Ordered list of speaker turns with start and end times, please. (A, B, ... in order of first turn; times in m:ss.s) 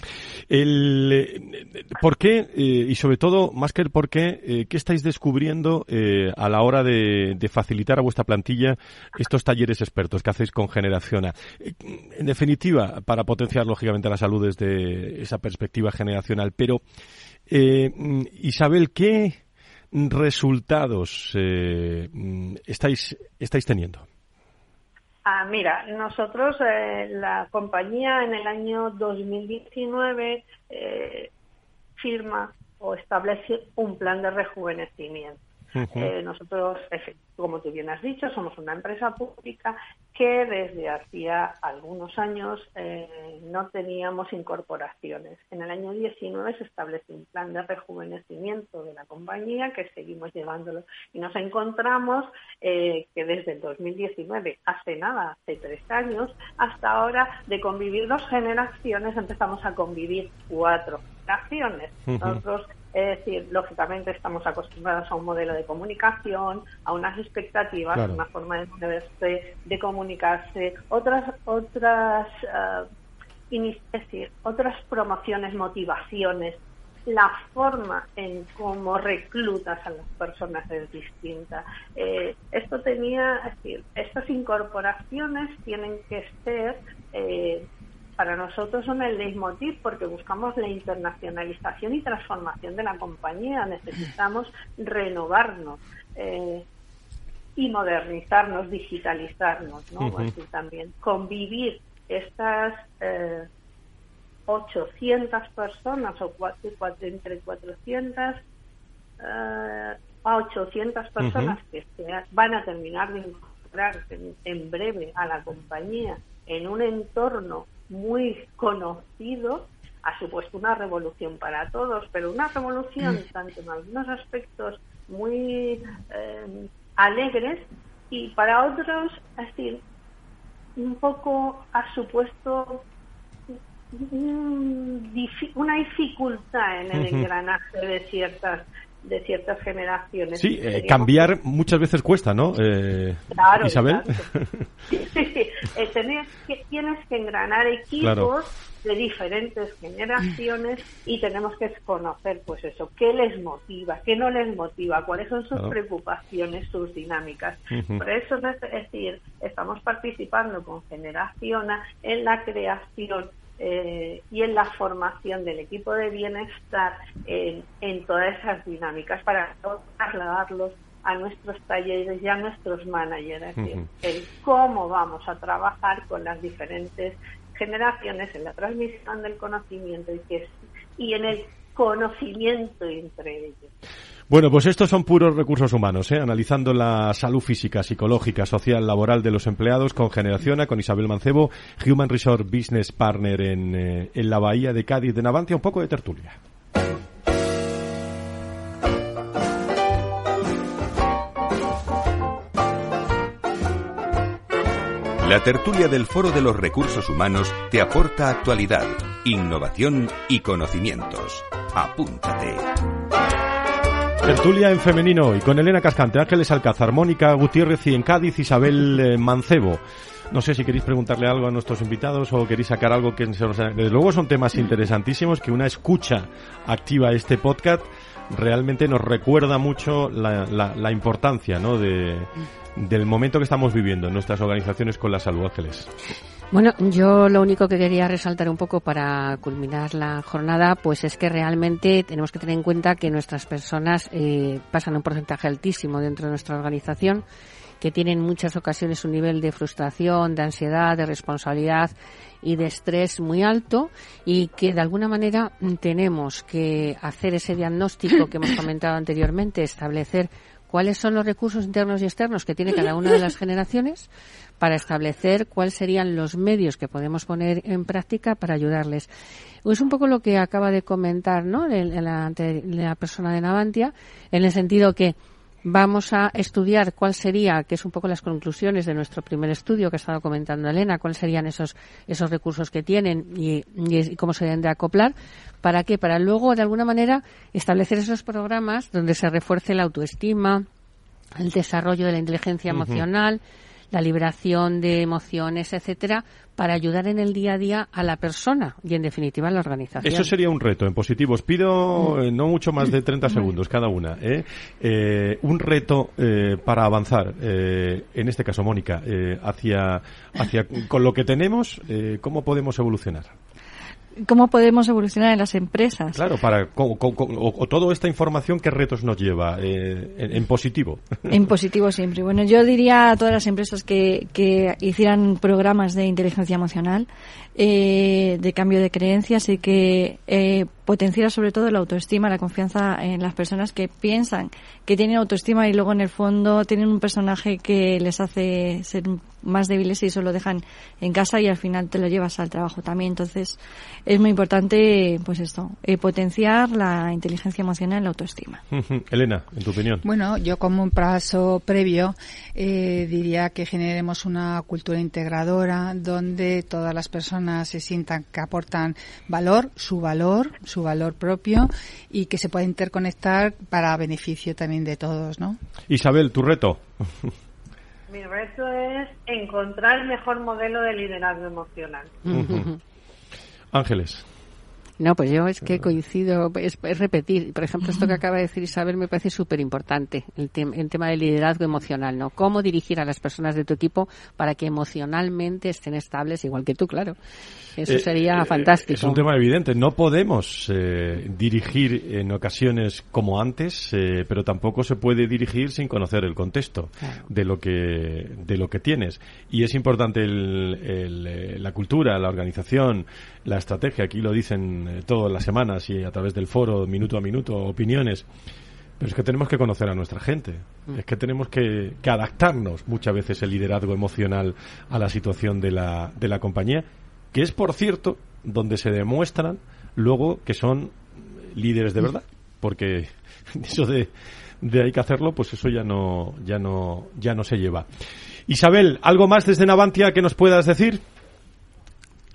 0:00.5-0:16.8 A
0:17.5-0:19.4 A
0:19.9-0:24.0 A
0:25.2-0:31.3 B
0:32.0-0:35.4 B
0:35.8-0:36.1 A
0:35.9-1:12.9 B
1:02.1-1:02.4 A
1:07.9-1:08.2 A
1:13.5-1:27.6 B
1:28.2-1:36.6 B
1:37.6-1:43.5 B
1:40.0-1:40.3 A
1:44.5-1:48.4 B
1:49.2-2:09.8 B
1:51.2-1:51.5 A
2:10.8-2:12.8 B
2:13.5-2:21.3 B
2:17.0-2:17.2 A
2:20.4-2:24.7 A
2:23.3-2:24.2 B
2:24.9-3:03.7 B
2:28.0-2:28.3 A
2:37.7-2:38.0 A
2:53.6-2:53.9 A
3:04.3-3:16.4 A
3:25.2-3:32.6 C
3:34.2-3:55.9 A
3:56.5-4:07.2 D
4:07.8-4:24.1 D
4:24.6-4:29.1 D
4:29.6-4:50.7 D
4:51.4-4:53.4 D
4:52.7-4:53.0 A
4:53.9-5:00.3 D
5:00.0-5:13.4 A
5:14.2-5:16.2 E
5:16.2-5:21.4 A
5:21.3-5:48.6 E
5:48.7-5:50.0 A
5:50.0-6:05.6 F
6:05.9-6:07.3 A
6:08.1-6:12.2 B
6:12.3-6:12.8 D
6:12.3-6:12.7 A
6:13.7-6:14.2 A
6:15.0-6:27.2 D
6:27.8-6:29.2 D
6:27.9-6:48.3 A
6:49.0-7:07.9 A
7:08.5-7:11.0 A